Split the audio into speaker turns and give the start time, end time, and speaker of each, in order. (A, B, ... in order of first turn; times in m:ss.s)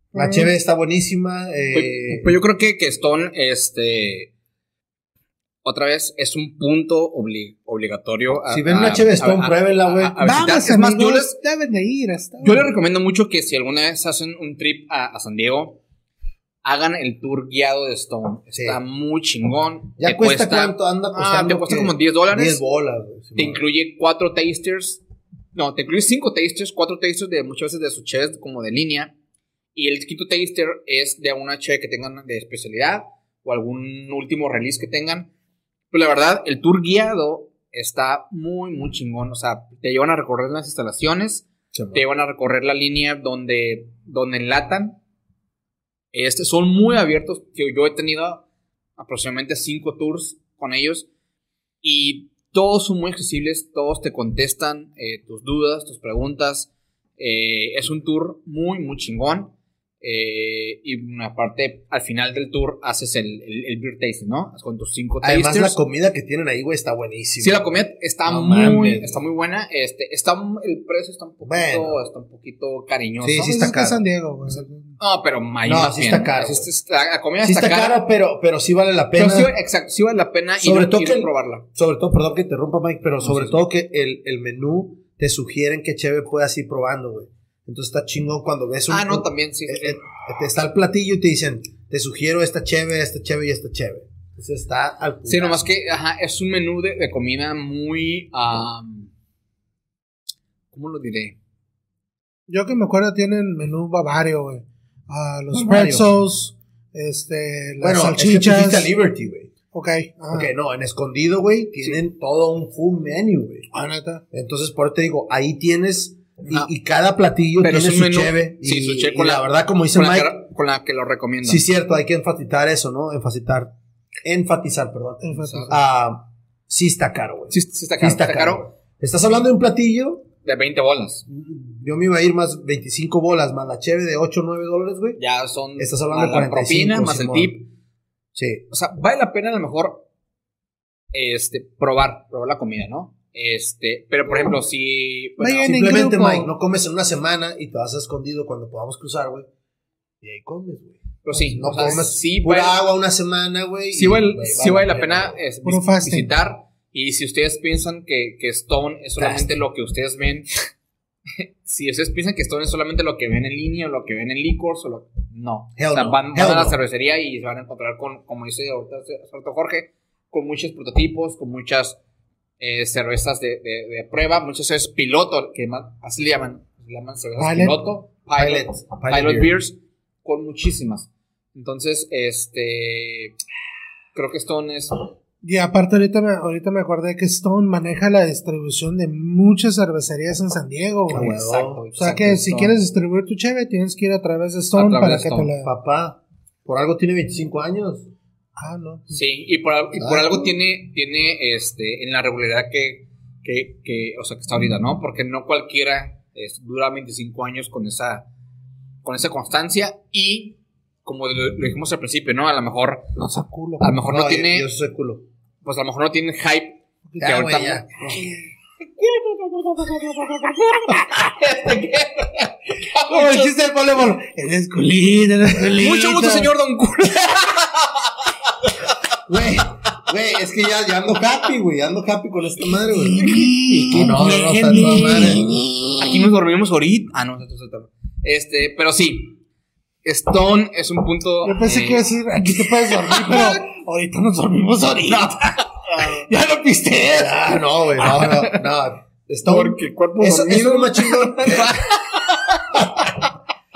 0:00.1-0:00.5 A
0:00.1-0:02.3 B
0:01.7-0:04.3 C
0:05.6-0:11.4 C
0:08.5-0:10.2 B
0:10.2-0:12.7 A
0:12.4-0:15.8 C
0:16.6-0:22.6 C
0:18.5-0:18.8 B
0:20.0-0:23.6 B
0:23.4-0:25.0 C
0:25.5-0:29.1 C
0:29.7-0:35.3 C
0:35.9-0:45.0 C
0:41.7-0:42.0 B
0:46.1-0:48.4 C
0:49.0-0:51.0 C
0:51.8-1:05.8 C
1:05.2-1:07.6 B
1:07.4-1:13.5 C
1:08.2-1:09.1 B
1:11.4-1:12.0 B
1:13.2-1:14.0 B
1:13.4-1:14.9 A
1:15.0-1:18.0 C
1:15.6-1:16.7 B
1:17.4-1:19.5 B
1:19.2-1:21.6 C
1:20.6-1:35.6 B
1:23.2-1:23.6 C
1:28.9-1:30.1 C
1:35.2-1:39.1 C
1:40.7-1:41.4 C
1:42.5-1:48.9 A
1:45.5-1:46.1 B
1:47.8-1:49.5 B
1:49.7-1:50.5 A
1:50.3-1:53.7 B
1:53.7-1:54.2 A
1:54.3-2:00.4 B
1:57.6-2:01.6 C
2:01.4-2:03.7 B
2:04.2-2:10.2 B
2:05.2-2:05.8 A
2:05.4-2:05.7 C
2:07.5-2:08.6 C
2:10.4-2:11.2 C
2:11.3-2:15.2 B
2:15.2-2:17.7 C
2:15.8-2:17.6 B
2:18.3-2:18.6 B
2:18.7-2:20.0 C
2:21.1-2:25.8 C
2:25.4-2:26.5 A
2:25.6-2:29.5 B
2:30.2-2:35.4 B
2:31.2-2:32.8 C
2:33.9-2:40.6 C
2:35.6-2:36.3 A
2:39.2-2:39.6 B
2:41.4-2:52.0 C
2:45.8-2:46.8 B
2:52.6-3:03.4 C
2:57.4-2:57.8 A
2:58.4-2:59.5 B
3:04.1-3:04.9 C
3:05.4-3:11.3 A
3:11.1-3:11.8 B
3:11.1-3:12.8 C
3:11.9-3:15.7 A
3:14.7-3:15.5 C
3:15.6-3:18.1 B
3:18.6-3:19.2 A
3:19.1-3:28.2 C
3:19.9-3:20.5 B
3:29.0-3:33.1 C
3:33.2-3:34.0 A
3:33.8-3:34.6 C
3:34.0-3:35.2 B
3:35.6-3:37.9 C
3:37.1-3:38.3 A
3:37.2-3:38.2 B
3:38.8-3:43.5 C
3:43.0-3:46.5 A
3:45.8-3:48.9 C
3:49.3-3:53.3 B
3:52.9-3:55.7 A
3:53.2-3:54.3 C
3:53.9-3:55.4 B
3:55.1-3:59.4 C
4:00.0-4:02.1 C
4:01.4-4:07.5 A
4:02.9-4:03.6 C
4:05.1-4:06.2 C
4:07.1-4:11.8 B
4:08.0-4:08.6 C
4:09.4-4:13.3 C